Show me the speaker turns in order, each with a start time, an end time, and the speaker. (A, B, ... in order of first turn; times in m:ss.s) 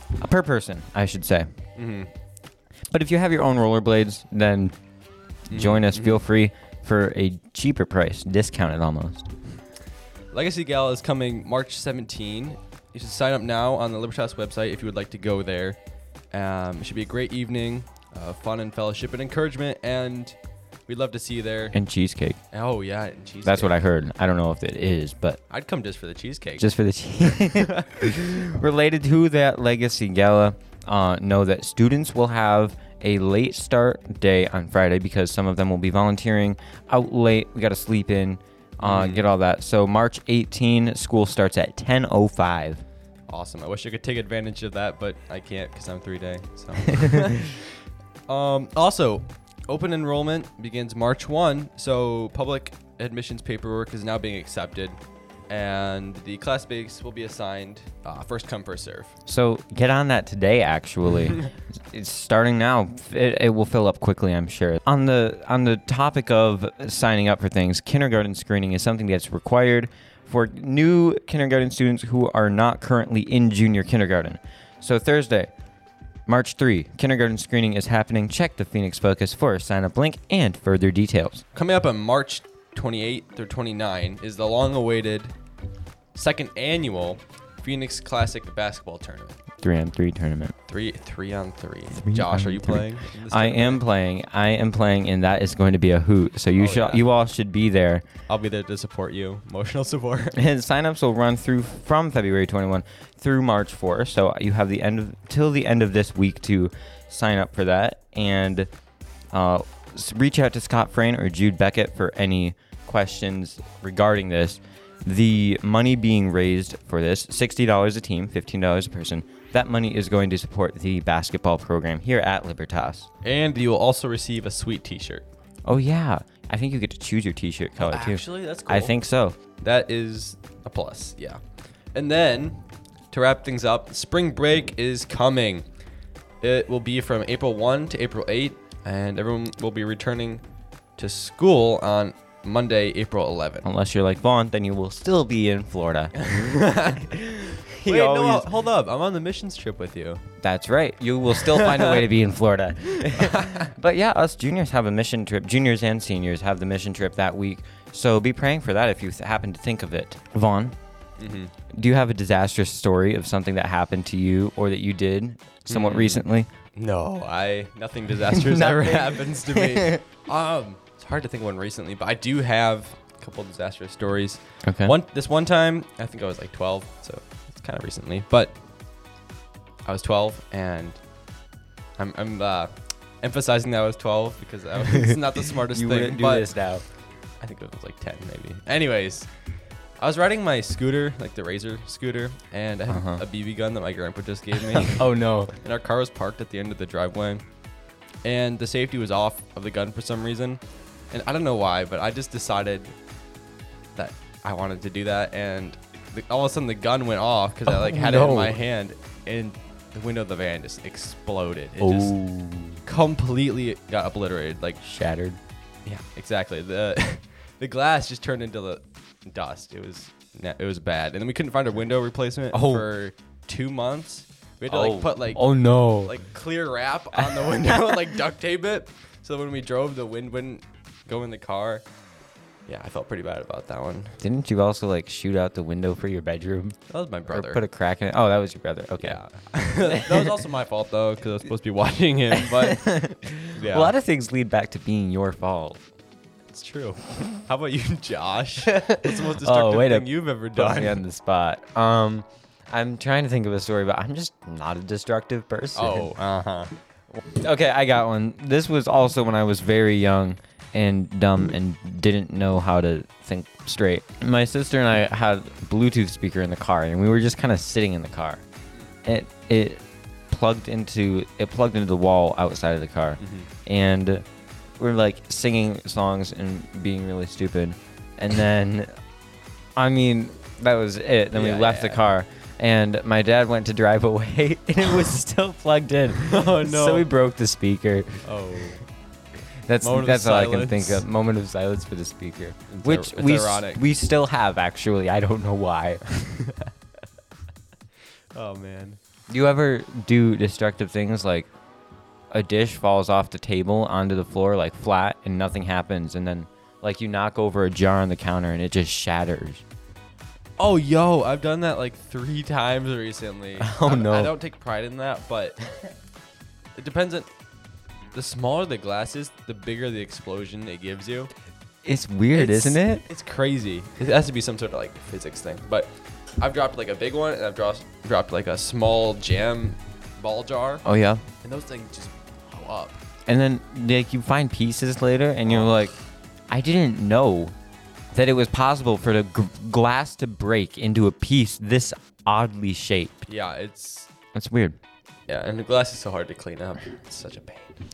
0:00.2-0:01.5 A
0:01.8-0:02.1 B
0:02.9-0:04.8 A
0:05.5-0:06.3 B
0:05.5-0:09.3 A
0:10.3-0:15.8 B
0:16.3-0:21.8 B
0:21.7-0:22.4 A
0:22.5-0:23.8 B
0:23.4-0:25.4 A
0:25.5-0:27.8 B
0:26.6-0:42.8 A
0:38.8-0:39.3 B
0:43.3-0:55.0 B
0:55.5-0:59.1 B
0:59.3-1:15.5 A
1:16.3-1:21.4 A
1:21.5-1:25.4 B
1:26.1-1:29.4 B
1:29.6-1:30.6 A
1:30.7-1:33.8 B
1:31.9-1:38.1 A
1:36.6-1:37.1 B
1:38.3-1:40.4 B
1:40.4-1:48.7 A
1:49.3-2:03.1 A
2:03.2-2:05.2 B
2:05.6-2:09.4 A
2:07.8-2:09.0 B
2:09.6-2:15.7 B
2:16.4-2:20.4 B
2:21.0-2:23.7 B
2:23.6-2:26.3 A
2:26.2-2:30.2 B
2:27.7-2:28.5 A
2:30.4-2:40.8 A
2:31.3-2:32.0 B
2:33.1-2:33.7 B
2:41.2-2:41.5 B
2:41.7-2:46.5 A
2:45.7-2:58.6 B
2:48.4-2:50.0 A
2:54.6-2:54.9 A
2:59.8-3:01.1 B
3:02.0-3:17.5 B
3:05.7-3:06.8 A
3:12.9-3:13.2 A
3:14.7-3:15.6 A
3:18.2-3:23.0 B
3:24.0-3:32.2 B
3:27.7-3:28.6 A
3:31.8-3:32.8 A
3:32.8-3:34.8 B
3:34.8-3:35.4 A
3:35.8-3:51.8 B
3:42.5-3:42.9 A
3:44.7-3:46.2 A
3:47.2-3:48.0 A
3:52.7-3:54.2 B
3:54.2-3:59.2 A
3:56.9-3:57.6 B
3:59.0-4:03.9 B
4:02.4-4:05.8 A
4:06.5-4:11.0 B
4:08.9-4:16.1 A
4:15.8-4:16.7 B
4:17.3-4:28.4 A
4:29.0-4:34.2 A
4:33.2-4:33.5 B
4:34.8-4:38.9 A
4:39.8-4:48.2 A
4:41.3-4:42.1 B
4:46.2-4:47.1 B
4:48.2-4:48.9 B
4:49.6-4:56.4 A
4:49.8-4:51.1 B
4:52.7-4:53.8 B
4:58.3-4:59.0 B
4:59.3-5:01.5 A
5:02.3-5:09.6 A
5:10.6-5:15.8 B
5:13.6-5:14.3 A
5:16.8-5:17.3 B
5:18.1-5:21.3 B
5:21.8-5:23.1 A
5:22.3-5:30.8 B
5:30.8-5:31.2 A
5:31.4-5:33.0 B
5:33.3-5:36.0 A
5:35.4-5:35.9 B
5:36.5-5:37.5 A
5:38.1-5:43.2 A
5:43.3-5:44.1 B
5:44.3-5:44.8 A
5:45.3-5:47.8 B